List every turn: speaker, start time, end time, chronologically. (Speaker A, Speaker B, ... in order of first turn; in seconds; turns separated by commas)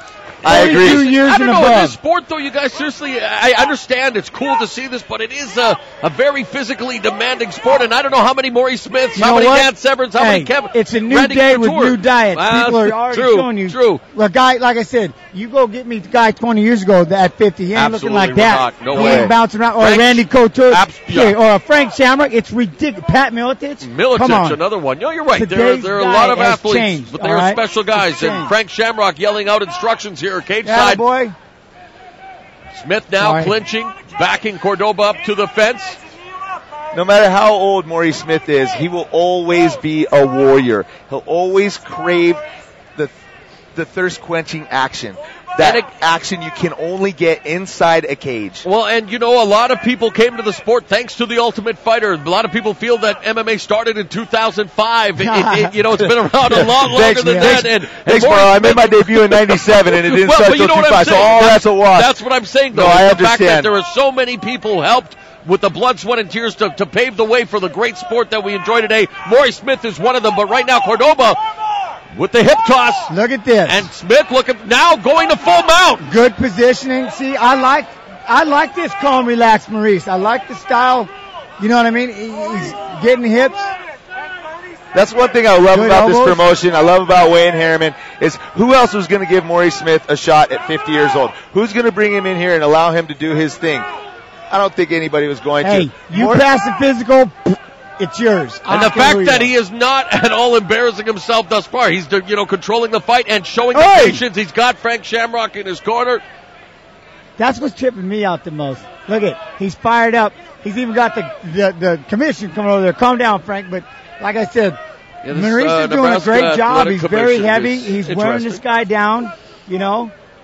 Speaker A: 0.4-1.0, Speaker B: 0.4-1.9, Speaker C: 0.4-14.0, Speaker B: 9.1-24.6, Speaker C: 17.7-21.4, Speaker A: 18.9-19.3, Speaker C: 23.8-31.0, Speaker B: 25.3-28.5, Speaker B: 30.6-31.3, Speaker C: 32.7-36.0, Speaker B: 33.2-33.5, Speaker A: 36.9-42.4, Speaker A: 43.7-48.6, Speaker C: 45.6-45.9, Speaker C: 48.6-71.4, Speaker B: 55.2-55.8, Speaker A: 56.8-62.1, Speaker B: 57.2-57.5, Speaker A: 62.7-63.7, Speaker C: 72.1-73.1, Speaker B: 73.1-73.9, Speaker C: 73.7-76.1, Speaker B: 76.0-83.7, Speaker A: 84.9-93.9, Speaker B: 85.7-86.4, Speaker A: 94.5-96.5, Speaker B: 95.6-99.5, Speaker C: 98.7-106.2, Speaker B: 103.7-104.2, Speaker B: 107.4-114.8, Speaker C: 115.2-118.6, Speaker B: 115.3-120.1